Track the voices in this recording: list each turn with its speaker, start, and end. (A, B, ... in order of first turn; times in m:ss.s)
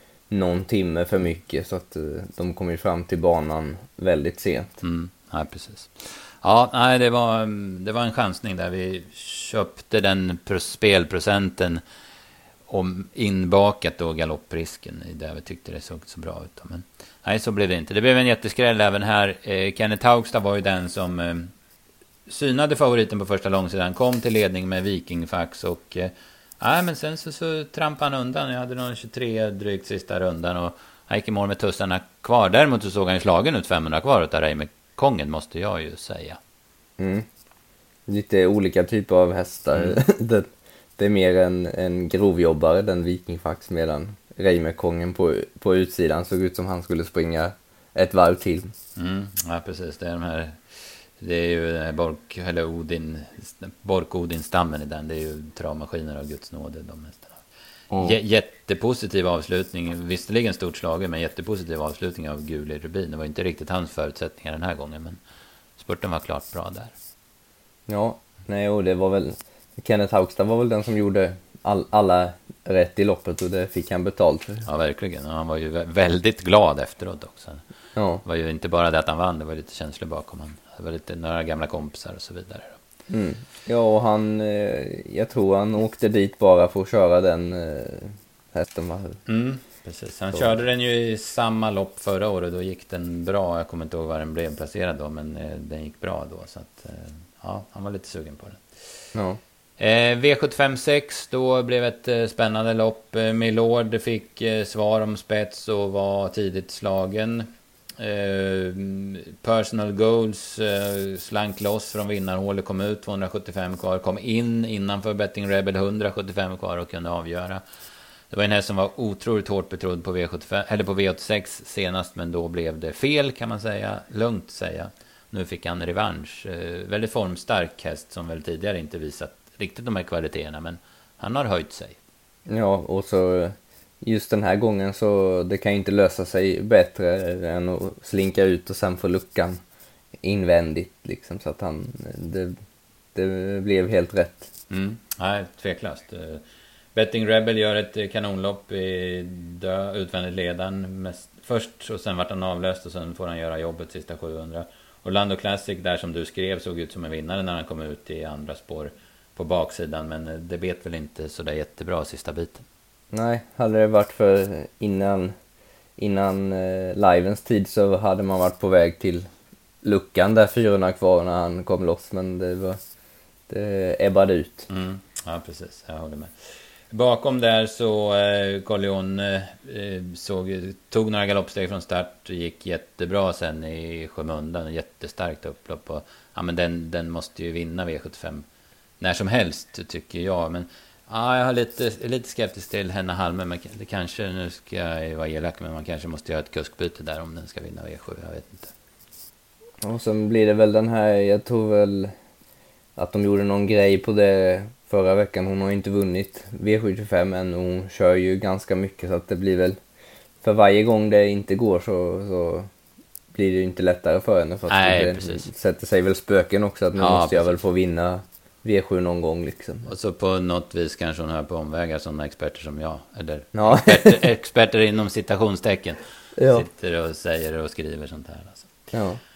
0:00.3-0:04.8 A
0:04.8-0:11.8 B
0:12.7-0:21.5 B
0:22.3-0:36.4 B
0:37.0-0:37.2 A
0:38.1-0:48.7 A
0:49.0-0:57.4 B
0:57.9-0:58.2 A
0:58.0-1:05.2 B
1:05.8-1:06.9 B
1:07.9-1:14.6 A
1:14.6-1:17.6 B
1:17.9-1:18.2 A
1:18.2-1:22.8 B
1:23.1-1:29.2 A
1:29.3-1:38.6 B
1:39.1-1:39.4 A
1:39.8-1:47.5 B
1:48.0-1:57.6 B
1:58.3-2:12.0 B
2:12.5-2:19.6 A
2:20.2-2:22.5 A
2:23.1-2:24.5 A
2:24.7-2:26.4 B
2:26.9-2:42.6 B
2:43.1-2:45.3 A
2:46.0-2:49.2 A
2:49.8-2:52.8 A
2:53.5-2:54.7 A
2:54.7-2:56.3 B
2:56.9-3:08.4 B
3:09.0-3:18.7 B
3:19.8-3:22.1 A
3:23.0-3:29.8 A
3:30.4-3:32.7 A
3:33.3-3:39.9 A
3:34.7-3:35.5 B
3:37.0-3:37.6 B
3:39.8-3:48.7 B
3:43.5-3:44.2 A
3:46.4-3:46.6 A
3:48.9-3:49.2 A